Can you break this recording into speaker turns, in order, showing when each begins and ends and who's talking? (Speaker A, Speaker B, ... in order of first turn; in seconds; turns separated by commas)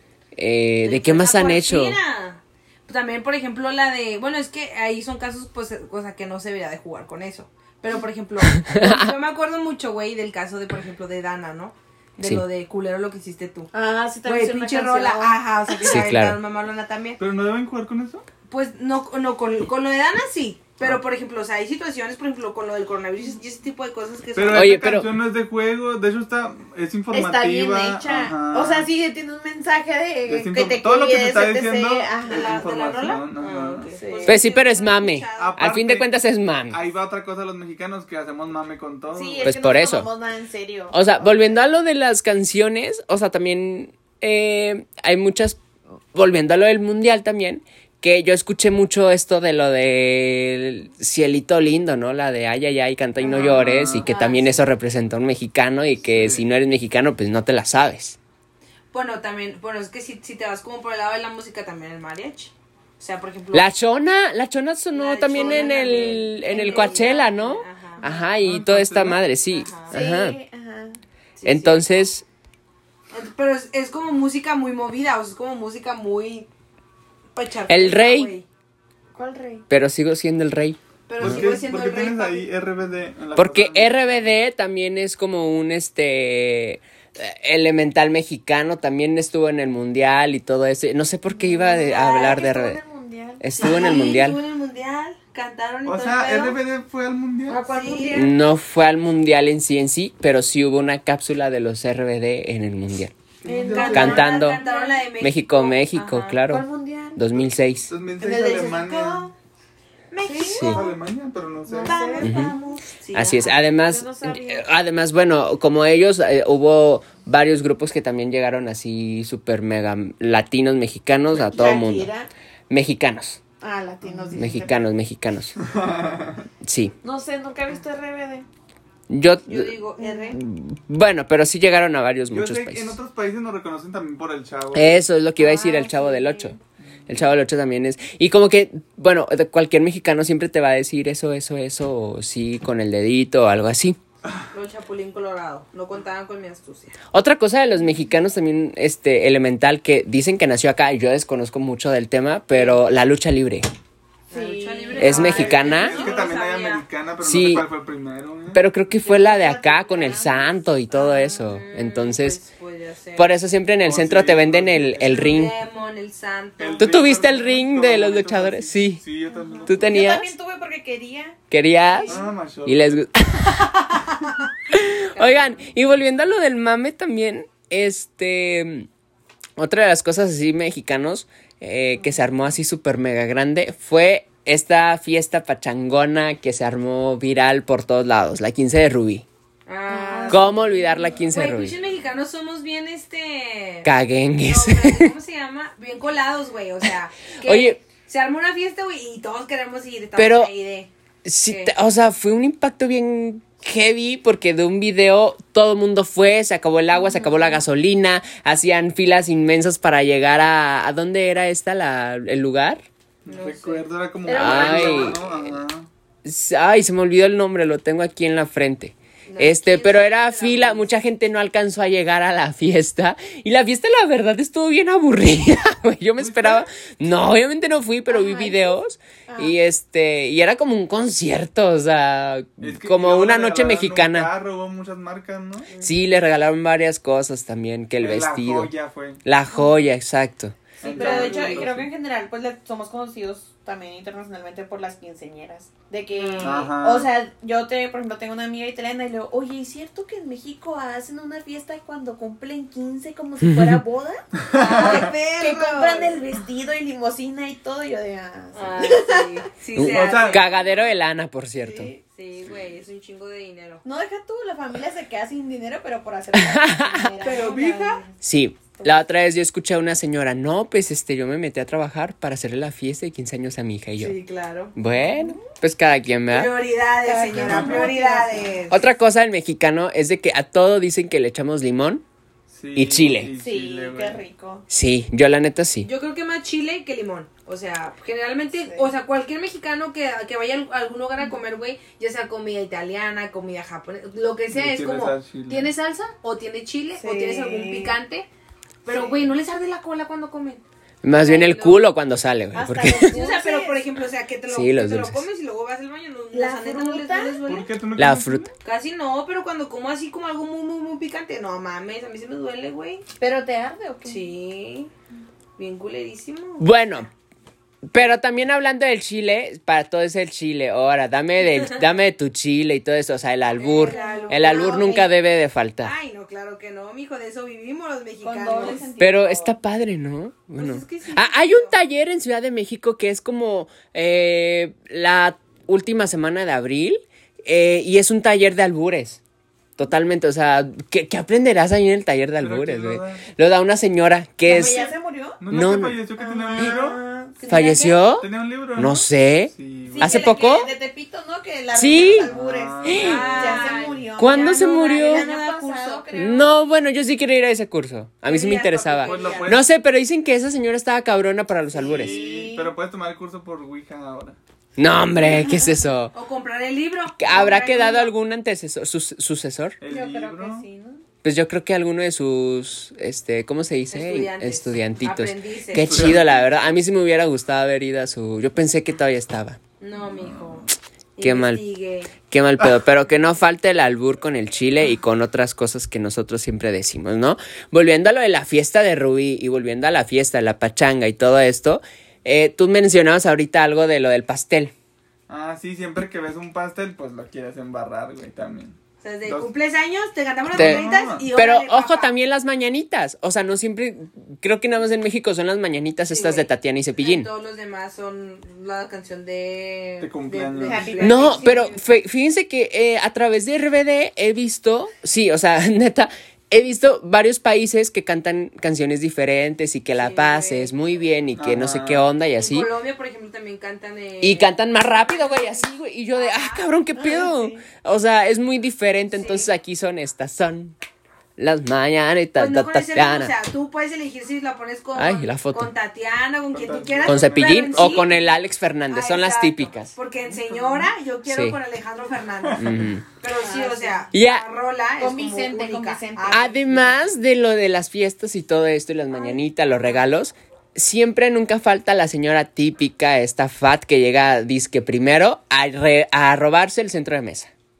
Speaker A: 0.3-2.0, Speaker B: 0.8-13.7, Speaker A: 8.5-9.1, Speaker C: 13.7-16.1, Speaker B: 14.2-17.2, Speaker A: 15.8-16.4, Speaker D: 17.2-18.2, Speaker B: 18.5-24.7, Speaker D: 24.3-28.9, Speaker A: 24.5-25.1, Speaker C: 27.1-33.2, Speaker D: 30.2-33.9, Speaker B: 32.2-35.6, Speaker C: 33.9-34.4, Speaker A: 34.2-36.8, Speaker D: 35.4-36.1, Speaker D: 36.7-39.5, Speaker C: 39.1-41.6, Speaker A: 39.4-40.1, Speaker A: 40.9-45.6, Speaker A: 46.1-58.2, Speaker C: 53.2-54.6, Speaker D: 53.3-54.0, Speaker D: 56.0-56.4, Speaker B: 58.9-63.7, Speaker A: 63.5-70.4, Speaker B: 64.9-68.1, Speaker C: 65.3-67.0, Speaker D: 68.4-69.2, Speaker B: 69.5-69.9, Speaker C: 69.9-71.0, Speaker B: 71.4-72.1, Speaker A: 71.4-72.2, Speaker B: 73.1-76.5, Speaker B: 77.3-78.5, Speaker A: 77.7-78.3, Speaker C: 79.1-79.7, Speaker A: 79.7-81.5, Speaker B: 81.1-82.5, Speaker D: 81.2-84.3, Speaker A: 83.3-92.8, Speaker C: 91.3-93.8, Speaker A: 93.4-94.4, Speaker B: 93.5-96.6, Speaker D: 95.8-97.6, Speaker C: 97.5-98.3, Speaker B: 97.6-98.3, Speaker A: 98.1-103.1, Speaker D: 103.4-104.3, Speaker B: 103.5-106.4, Speaker C: 103.5-105.0, Speaker A: 103.9-104.6, Speaker A: 105.2-107.9, Speaker C: 106.5-107.2, Speaker D: 107.9-109.3, Speaker C: 108.2-109.3, Speaker B: 110.1-110.9, Speaker C: 110.2-110.9, Speaker A: 110.4-110.8, Speaker D: 110.6-112.2, Speaker C: 111.7-114.7, Speaker B: 111.8-113.6, Speaker A: 112.2-112.5, Speaker A: 113.1-122.1, Speaker C: 121.4-122.3, Speaker A: 122.7-123.4, Speaker C: 123.6-124.8, Speaker A: 124.3-125.5, Speaker D: 125.6-126.5, Speaker A: 126.6-126.9, Speaker C: 127.0-128.4, Speaker A: 129.1-129.7, Speaker B: 129.5-130.4, Speaker C: 130.0-130.4, Speaker A: 130.3-133.0, Speaker D: 132.3-135.0, Speaker A: 134.7-136.6, Speaker C: 135.4-136.6, Speaker A: 137.1-144.0, Speaker B: 144.5-147.0, Speaker A: 147.1-153.7, Speaker B: 154.3-156.8, Speaker C: 154.3-156.1, Speaker A: 155.0-156.0, Speaker D: 155.0-158.6, Speaker A: 157.2-157.6, Speaker A: 158.5-162.4, Speaker C: 159.0-161.4, Speaker B: 161.4-163.3, Speaker A: 163.2-165.5, Speaker D: 163.8-165.5, Speaker B: 165.1-166.9, Speaker D: 166.6-169.9, Speaker A: 166.8-169.0, Speaker C: 169.3-172.3, Speaker A: 169.7-170.3, Speaker A: 171.5-174.1, Speaker D: 172.1-173.0, Speaker A: 174.7-178.9, Speaker A: 179.6-189.2, Speaker B: 189.7-190.5, Speaker C: 189.9-191.2, Speaker A: 190.3-191.7, Speaker B: 191.3-193.9, Speaker A: 193.8-195.1, Speaker B: 194.4-200.9, Speaker A: 197.4-197.8, Speaker A: 200.2-200.5, Speaker A: 201.2-212.8, Speaker B: 201.5-201.7, Speaker D: 213.2-215.9, Speaker B: 213.3-213.8, Speaker C: 214.2-215.2, Speaker A: 214.3-215.5, Speaker A: 216.2-234.3, Speaker B: 219.3-220.9, Speaker D: 226.2-226.7, Speaker C: 228.1-229.5, Speaker D: 232.6-235.7, Speaker A: 235.8-238.7, Speaker D: 238.0-239.2, Speaker A: 239.2-240.6, Speaker D: 240.8-241.9, Speaker B: 240.8-241.7, Speaker C: 240.8-259.4, Speaker B: 246.1-246.7, Speaker D: 246.4-247.1, Speaker A: 253.4-253.8, Speaker D: 254.4-255.1, Speaker B: 254.5-256.1, Speaker B: 258.5-260.6, Speaker A: 259.7-261.9, Speaker D: 259.8-260.4, Speaker C: 261.7-262.0, Speaker B: 262.0-263.8, Speaker C: 263.8-268.1, Speaker A: 266.3-267.1, Speaker B: 267.2-268.0, Speaker A: 268.2-274.1, Speaker B: 274.0-274.8, Speaker A: 274.8-276.5, Speaker B: 276.3-278.8, Speaker C: 277.0-278.6, Speaker D: 277.3-277.9, Speaker A: 278.7-282.0, Speaker D: 282.5-284.2, Speaker A: 282.7-283.3, Speaker C: 283.4-284.6, Speaker A: 284.7-285.9, Speaker B: 285.8-298.3, Speaker C: 288.6-288.9, Speaker D: 294.5-295.7, Speaker C: 297.0-298.0, Speaker B: 298.8-300.6, Speaker C: 298.9-299.3, Speaker A: 301.0-303.1, Speaker B: 301.2-301.9, Speaker C: 302.5-303.8, Speaker B: 303.1-307.7, Speaker A: 304.5-305.2, Speaker C: 306.3-307.4, Speaker D: 307.4-308.5, Speaker A: 308.0-308.5, Speaker B: 308.6-313.0, Speaker C: 313.2-314.3, Speaker B: 314.0-314.9, Speaker B: 315.6-316.7, Speaker A: 316.6-317.1, Speaker A: 317.9-325.9, Speaker B: 323.5-325.1, Speaker C: 323.7-325.0, Speaker B: 325.8-328.9, Speaker C: 328.2-329.6, Speaker A: 329.0-339.2, Speaker B: 330.6-331.7, Speaker A: 339.8-344.9, Speaker D: 342.4-343.2, Speaker C: 344.4-345.4, Speaker D: 345.4-347.0, Speaker A: 345.5-346.0, Speaker C: 346.2-347.4, Speaker B: 347.4-348.0, Speaker A: 347.5-350.7, Speaker D: 348.2-350.1, Speaker C: 349.9-356.5, Speaker B: 350.0-350.3, Speaker A: 351.7-352.3, Speaker D: 351.8-353.8, Speaker A: 352.8-353.2, Speaker B: 352.9-356.1, Speaker A: 354.2-355.3, Speaker A: 356.1-362.1, Speaker B: 358.2-359.6, Speaker D: 359.0-359.6, Speaker C: 361.7-362.7, Speaker D: 361.7-364.4, Speaker A: 364.8-366.1, Speaker C: 365.2-365.7, Speaker B: 366.1-368.1, Speaker A: 367.2-369.8, Speaker D: 367.3-367.6, Speaker D: 369.8-370.7, Speaker C: 369.9-371.0, Speaker A: 371.2-379.6, Speaker B: 373.9-376.1, Speaker D: 375.8-376.5, Speaker B: 379.8-382.1, Speaker D: 380.0-380.6, Speaker A: 381.2-381.6, Speaker A: 382.2-394.7, Speaker D: 395.3-399.5, Speaker B: 399.0-402.1, Speaker D: 400.5-401.3, Speaker A: 400.5-407.3, Speaker B: 406.1-411.8, Speaker D: 410.0-411.2, Speaker C: 410.6-411.6, Speaker A: 411.0-422.7, Speaker B: 420.0-420.7, Speaker D: 421.4-422.1, Speaker B: 422.4-426.7, Speaker A: 424.2-430.7, Speaker C: 426.9-427.6, Speaker B: 429.1-429.5, Speaker A: 431.4-433.3, Speaker B: 432.4-438.2, Speaker A: 434.9-435.7, Speaker D: 436.5-438.2, Speaker A: 437.1-439.9, Speaker B: 438.9-446.9, Speaker D: 440.5-440.8, Speaker A: 441.2-441.6, Speaker D: 442.4-442.9, Speaker A: 442.6-443.0, Speaker C: 443.2-444.1, Speaker A: 444.1-444.4, Speaker C: 445.0-446.8, Speaker A: 446.3-457.5